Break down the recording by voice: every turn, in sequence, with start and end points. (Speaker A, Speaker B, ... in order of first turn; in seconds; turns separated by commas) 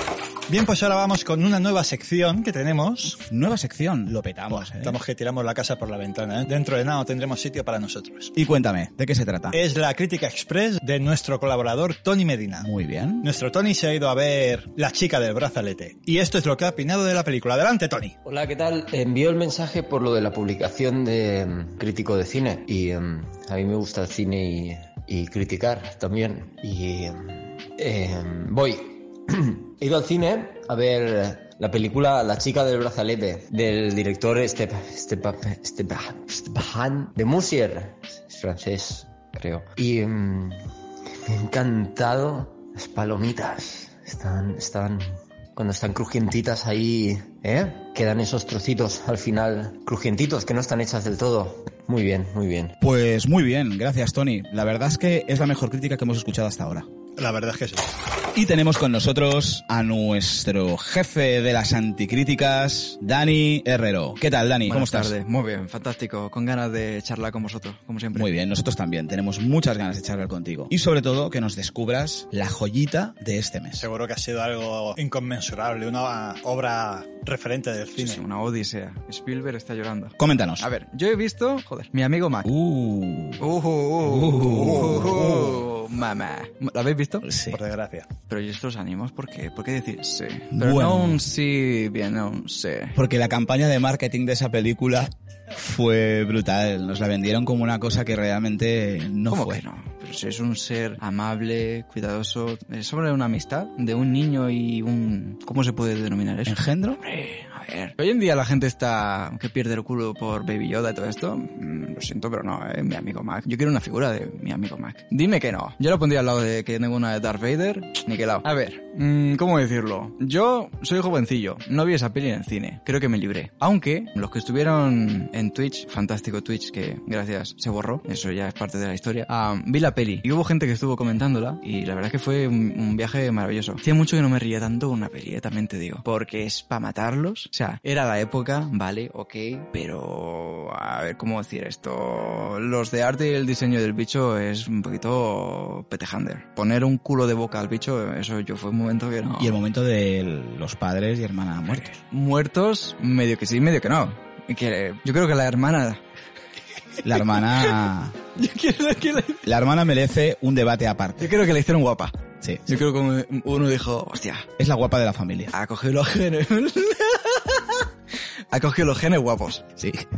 Speaker A: 0.5-3.2, Speaker B: 3.2-5.0, Speaker A: 4.5-8.3, Speaker B: 8.4-9.6, Speaker A: 9.5-12.7, Speaker B: 12.6-13.3, Speaker A: 13.2-18.2, Speaker C: 18.2-52.8, Speaker B: 52.8-56.9, Speaker A: 57.2-57.9, Speaker B: 58.3-65.1, Speaker D: 64.7-68.3, Speaker B: 68.1-73.9, Speaker A: 73.8-78.2, Speaker D: 78.0-82.5, Speaker B: 80.2-80.7, Speaker B: 82.5-83.5, Speaker D: 83.4-87.3, Speaker B: 84.0-85.7, Speaker B: 87.2-87.6, Speaker A: 87.5-88.1, Speaker D: 88.3-93.0, Speaker B: 90.5-91.2, Speaker B: 93.0-99.6, Speaker D: 99.3-149.6, Speaker B: 106.5-107.0, Speaker B: 149.4-151.9, Speaker D: 151.7-156.0, Speaker B: 157.0-158.2, Speaker D: 157.1-157.7, Speaker D: 158.4-159.4, Speaker B: 159.4-161.4, Speaker D: 161.2-162.1, Speaker B: 162.4-162.7, Speaker D: 162.7-164.5, Speaker B: 164.6-165.5, Speaker D: 165.5-167.9, Speaker D: 168.5-169.7, Speaker B: 169.8-170.1